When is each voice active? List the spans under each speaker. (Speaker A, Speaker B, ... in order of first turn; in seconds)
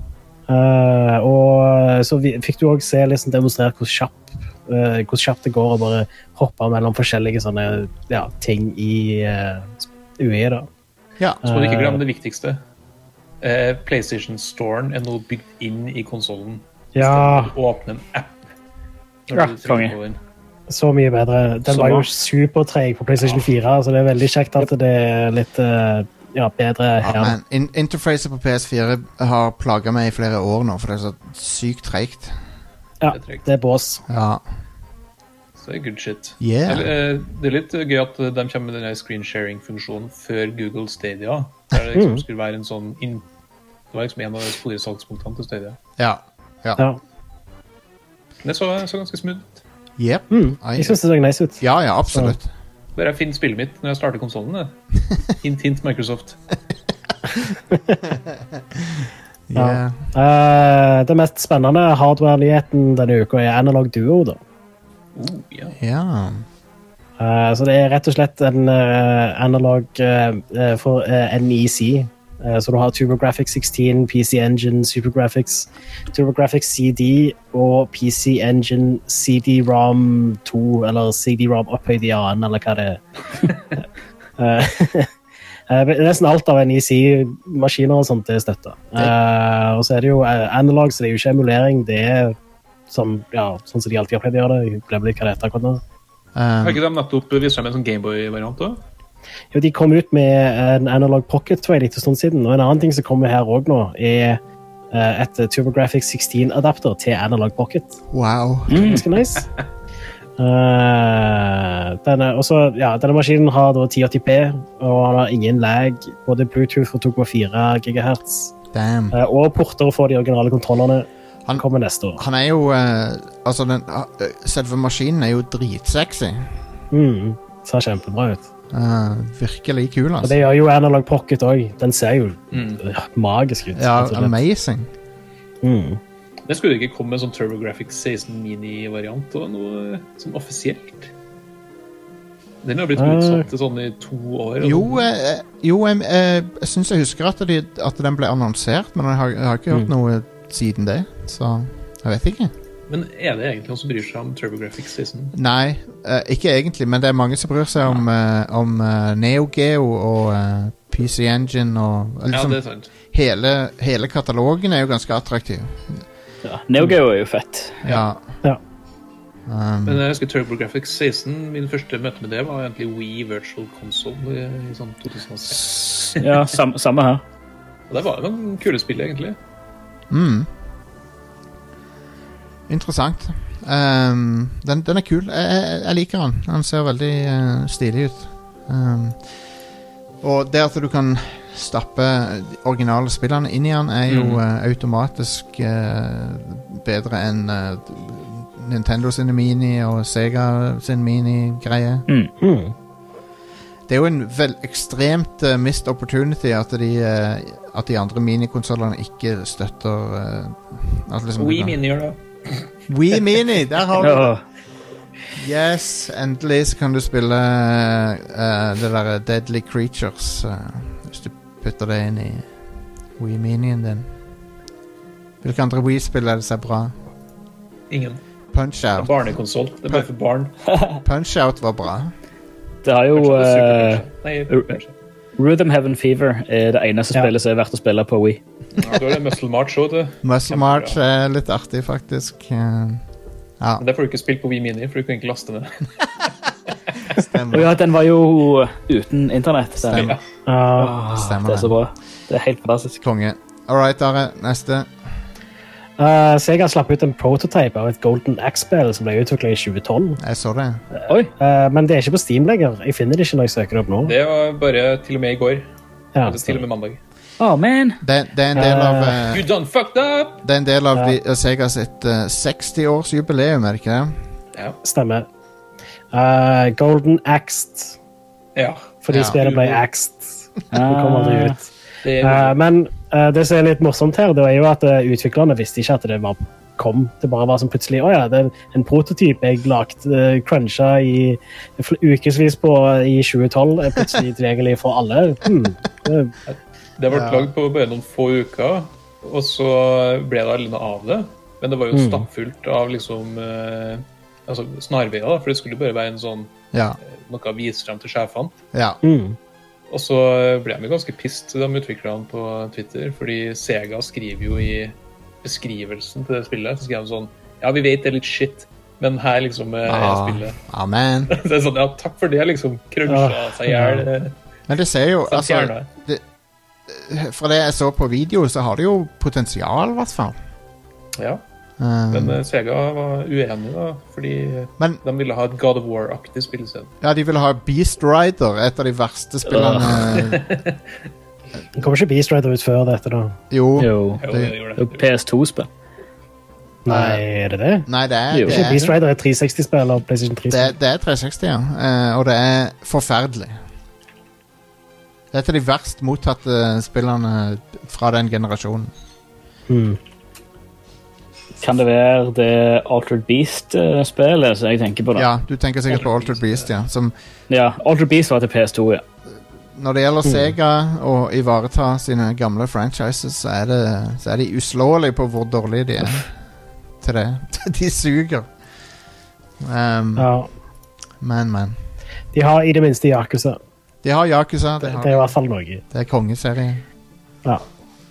Speaker A: 0.5-10.7, 11.4-12.0, 17.0-17.5, 20.7-27.4, 33.0-34.0, 41.9-42.2, 50.3-52.4, 57.7-58.0, 59.5-64.4, 67.2-83.5, 84.4-85.1, 85.7-92.4, 92.9-95.8, 99.5-104.4, 104.9-108.0, 108.7-109.5, 110.4-118.5, 119.1-122.2, 126.9-128.4, 130.2-134.3, 135.6-136.0, 143.0-143.5, 202.4-202.8, 250.5-251.0, 256.0-260.2, 261.4-264.1, 266.2-266.5, 268.5-269.3, 274.8-275.3, 276.1-278.0, 279.0-281.7, 282.2-296.3, 301.9-302.2, 309.0-309.4, 323.1-324.1, 341.8-343.4, 346.9-347.9, 348.4-350.7, 359.7-360.0, 380.2-380.5, 382.3-383.6, 384.8-385.8
Speaker B: 11.4-12.6, 13.4-18.4, 19.3-20.2, 33.1-33.5, 35.6-43.3, 43.9-45.8, 48.4-49.6, 53.0-54.8, 55.3-56.4, 65.2-65.8, 96.6-98.8, 132.5-132.8, 136.5-141.1, 142.6-145.1, 152.9-155.3, 162.3-162.9, 169.8-176.4, 177.9-179.4, 194.1-194.4, 211.4-213.2, 227.9-228.2, 229.0-230.6, 233.1-234.9, 238.8-241.0, 243.8-245.9, 249.9-250.2, 264.0-265.7, 266.2-267.0, 269.3-270.4, 278.6-279.8, 282.0-282.6, 296.5-308.6, 309.9-320.6, 321.3-324.4, 325.3-325.9, 331.2-331.4, 332.1-336.9, 340.1-340.8, 344.2-345.1, 365.9-366.7
Speaker C: 19.3-20.0, 21.7-22.1, 108.7-109.0, 166.5-167.8, 175.5-177.2, 214.0-214.4, 232.8-234.8, 235.4-238.4, 247.5-250.1, 250.8-253.0, 267.4-268.0, 280.7-281.6, 339.5-339.9, 343.8-344.2, 344.8-345.7, 348.3-348.9, 361.6-365.3, 367.5-369.0
Speaker D: 27.0-32.4, 34.1-34.4, 36.4-36.9, 46.0-46.8, 50.0-51.0, 51.6-52.5, 58.8-60.0, 65.8-66.5, 96.3-96.8, 108.1-109.0, 118.7-119.2, 122.2-126.5, 128.7-130.4, 133.7-134.9, 144.6-152.5, 155.3-162.6, 163.1-166.0, 167.8-168.3, 169.5-170.0, 180.1-180.5, 182.7-189.2, 190.2-202.1, 203.9-211.8, 212.9-214.3, 215.3-222.5, 223.2-224.1, 225.4-226.9, 228.5-229.1, 231.0-232.1, 240.2-243.0, 243.6-243.8, 247.1-247.8, 249.8-250.2, 251.1-251.8, 253.0-254.9, 260.2-260.8, 268.0-269.5, 270.4-274.2, 279.1-279.4, 297.1-297.5, 306.7-307.0, 308.7-309.0, 319.9-321.4, 324.7-326.2, 326.9-330.4, 331.8-332.4, 337.0-340.5, 343.5-344.5, 346.9-347.2, 347.9-348.9, 350.5-353.6, 355.3-358.9, 365.2-367.1, 369.8-376.3, 377.0-378.5, 379.6-380.3, 381.2-381.8, 384.0-385.3, 385.9-386.8